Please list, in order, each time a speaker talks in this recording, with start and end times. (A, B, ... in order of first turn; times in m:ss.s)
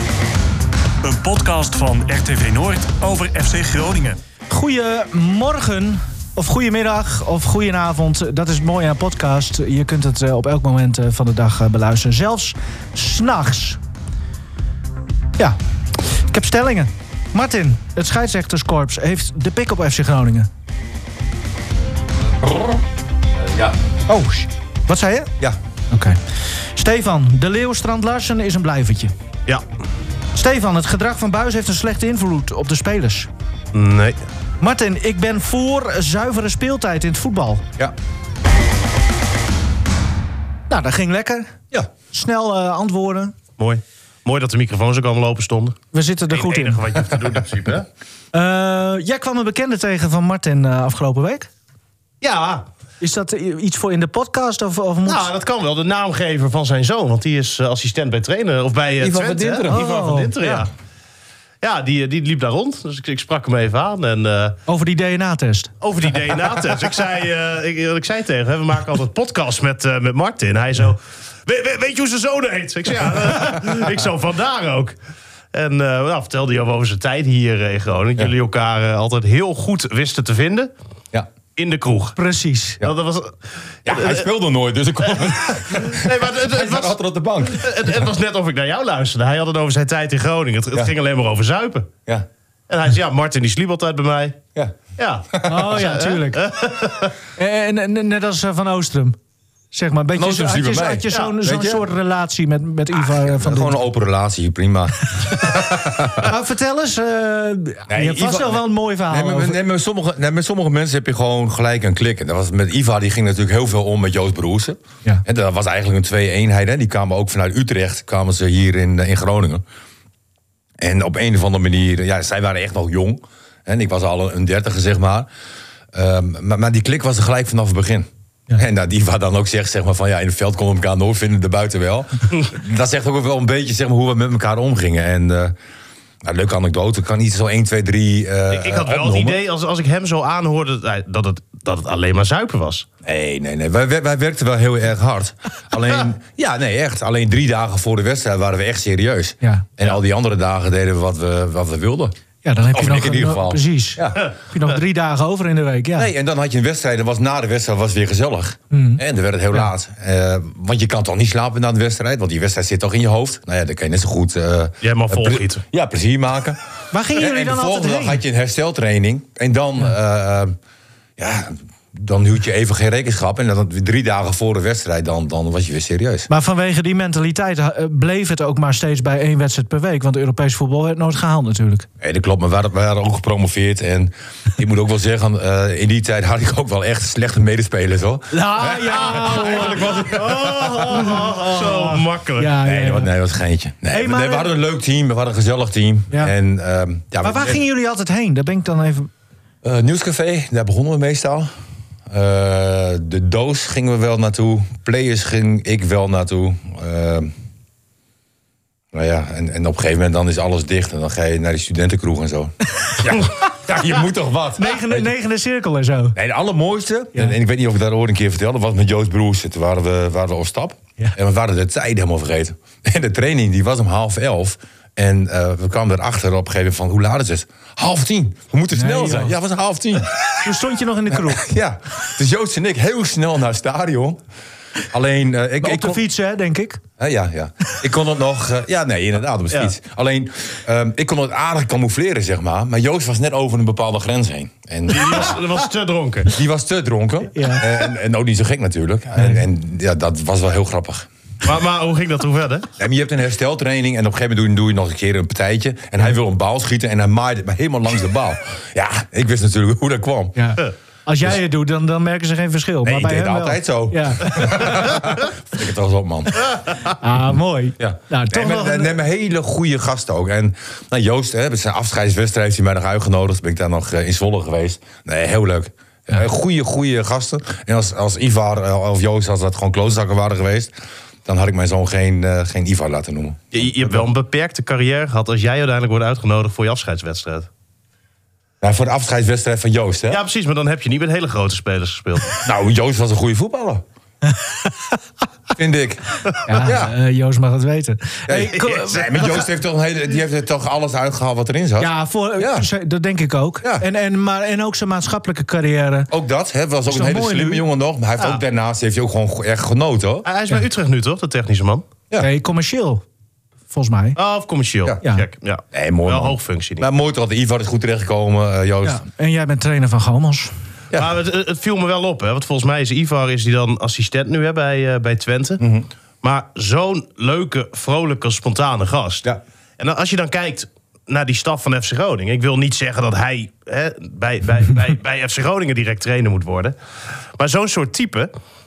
0:01.0-0:04.2 A
0:04.5-0:13.8 B
0:15.4-0:20.5 B
0:22.4-0:22.8 C
0:23.4-0:23.7 C
0:24.1-0:25.3 B
0:25.9-0:26.2 B
0:26.7-0:29.1 B
0:30.3-0:33.3 B
0:33.7-0:34.2 D
0:34.6-0:37.7 B
0:40.7-0:41.6 B
0:42.1-0:43.4 B
0:43.6-0:45.8 D
0:45.9-0:47.0 B
0:46.3-0:47.9 D
0:48.3-0:51.5 B
0:52.2-0:52.6 D
0:53.0-0:55.3 B
0:55.1-1:00.7 D
0:59.0-0:59.8 C
0:59.7-1:00.6 B
1:01.6-1:04.6 D
1:04.7-1:05.7 B
1:05.8-1:15.0 D
1:15.5-1:20.7 D
1:21.6-1:22.2 D
1:22.2-1:22.8 B
1:22.8-1:24.3 D
1:23.9-1:27.7 C
1:25.2-1:31.9 D
1:32.7-1:34.4 D
1:35.0-1:37.1 D
1:35.3-1:35.8 C
1:35.4-1:36.4 B
1:37.4-1:39.2 B
1:39.7-1:43.8 B
1:40.2-1:41.8 C
1:41.1-1:41.4 D
1:43.0-1:46.3 C
1:46.2-1:49.6 B
1:47.9-1:59.6 C
2:00.8-2:05.3 C
2:05.9-2:15.6 C
2:16.2-2:19.4 C
2:18.5-2:22.9 D
2:23.0-2:32.2 C
2:32.4-2:36.1 B
2:32.7-2:34.2 C
2:36.0-2:46.6 C
2:38.7-2:39.0 B
2:44.8-2:45.6 D
2:46.9-2:48.2 B
2:47.1-2:50.6 C
2:51.2-2:56.3 C
2:56.3-3:01.9 B
3:02.0-3:11.2 C
3:08.3-3:10.2 B
3:08.9-3:12.6 D
3:10.8-3:13.1 B
3:12.6-3:17.6 C
3:13.9-3:14.5 B
3:17.2-3:19.1 B
3:19.6-3:21.5 C
3:22.1-3:27.3 C
3:28.9-3:35.1 C
3:34.6-3:36.2 B
3:36.2-3:50.2 C
3:48.7-3:49.4 B
3:50.3-3:51.4 B
3:51.1-3:54.2 C
3:54.9-3:56.0 C
3:55.6-3:56.8 B
3:57.0-4:05.4 C
4:04.9-4:06.4 D
4:06.3-4:11.1 C
4:07.3-4:07.6 B
4:09.2-4:09.4 B
4:11.4-4:12.7 D
4:12.8-4:20.4 C
4:20.4-4:25.0 B
4:22.8-4:26.4 C
4:26.9-4:29.0 B
4:27.3-4:40.7 C
4:41.2-4:44.0 C
4:43.5-4:47.5 D
4:48.6-4:50.2 C
4:50.1-4:52.4 D
4:52.4-4:53.8 C
4:54.2-4:54.9 B
4:55.6-4:56.9 C
4:56.4-4:59.5 B
4:58.3-5:02.7 C
4:58.6-4:59.4 D
5:01.8-5:06.1 B
5:06.1-5:10.3 C
5:06.9-5:07.6 B
5:10.2-5:11.9 D
5:12.2-5:13.0 B
5:13.7-5:14.2 B
5:14.2-5:16.9 D
5:15.7-5:19.0 C
5:18.8-5:20.5 B
5:20.9-5:25.6 D
5:25.6-5:25.9 C
5:26.2-5:29.2 D
5:29.8-5:36.8 D
5:37.4-5:38.3 D